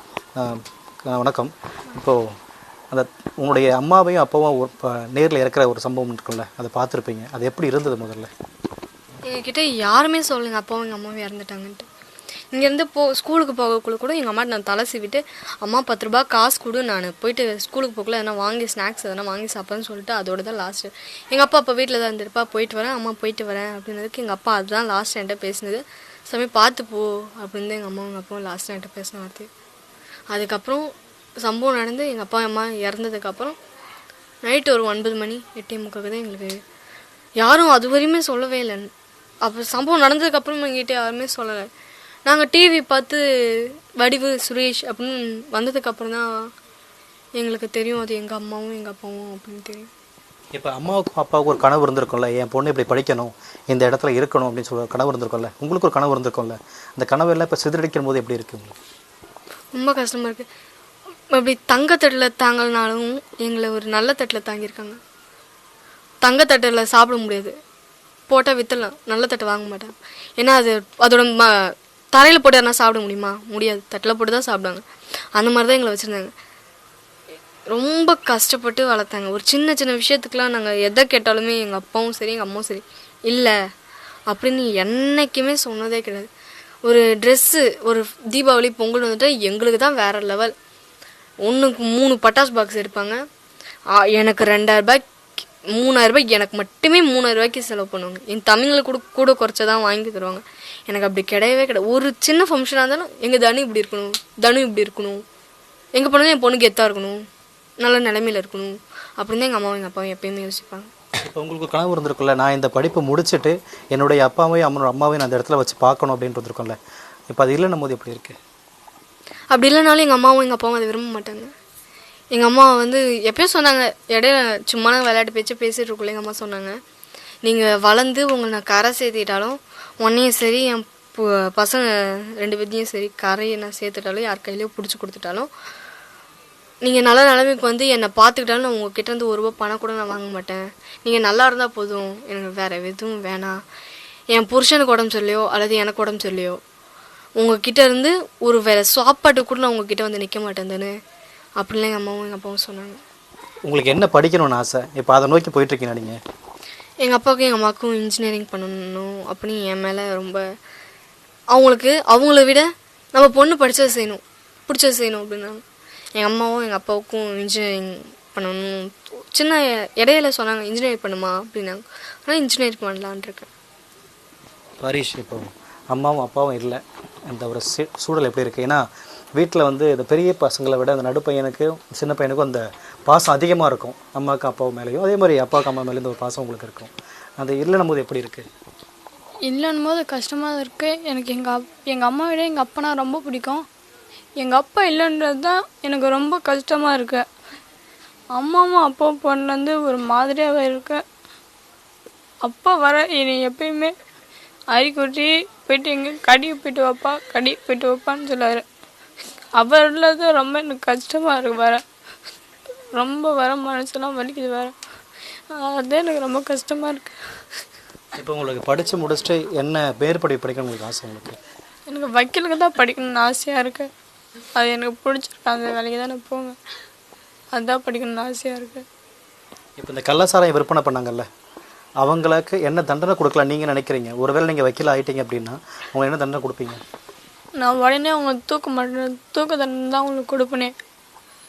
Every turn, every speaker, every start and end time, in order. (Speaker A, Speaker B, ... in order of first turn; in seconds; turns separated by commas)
Speaker A: 0.3-2.3, Speaker A: 2.9-8.3, Speaker B: 9.3-11.8, Speaker B: 12.5-29.5, Speaker B: 30.3-30.9, Speaker B: 31.4-33.5, Speaker B: 34.4-36.6, Speaker B: 37.4-38.9, Speaker B: 39.4-41.7, Speaker B: 42.2-46.5, Speaker B: 47.4-49.9, Speaker A: 50.5-58.8, Speaker B: 59.7-60.5, Speaker B: 61.3-65.0, Speaker B: 66.2-67.5, Speaker B: 68.3-74.8, Speaker B: 75.3-76.3, Speaker B: 77.7-83.5, Speaker B: 84.3-86.3, Speaker B: 86.8-90.5, Speaker B: 91.4-93.2, Speaker B: 93.9-105.2, Speaker B: 105.9-107.2, Speaker B: 107.8-110.9, Speaker A: 111.2-116.8, Speaker A: 117.3-118.4, Speaker B: 119.5-121.5, Speaker B: 122.3-126.8, Speaker B: 127.4-135.5, Speaker B: 136.8-143.6, Speaker B: 144.3-146.6, Speaker B: 147.4-150.9, Speaker B: 151.6-153.0, Speaker A: 153.7-156.2, Speaker B: 157.0-160.4, Speaker B: 161.5-165.6, Speaker B: 166.2-173.5, Speaker A: 174.8-178.8, Speaker A: 179.4-188.5, Speaker C: 189.4-193.7, Speaker C: 194.4-197.2, Speaker C: 198.3-201.0, Speaker C: 202.4-203.9, Speaker C: 204.7-208.6, Speaker C: 209.5-211.8, Speaker C: 212.8-214.8, Speaker C: 215.5-217.2, Speaker A: 218.2-221.4, Speaker C: 221.9-223.9, Speaker C: 224.5-226.6, Speaker C: 227.5-228.8, Speaker A: 229.8-231.3, Speaker A: 232.0-236.8, Speaker C: 237.6-240.7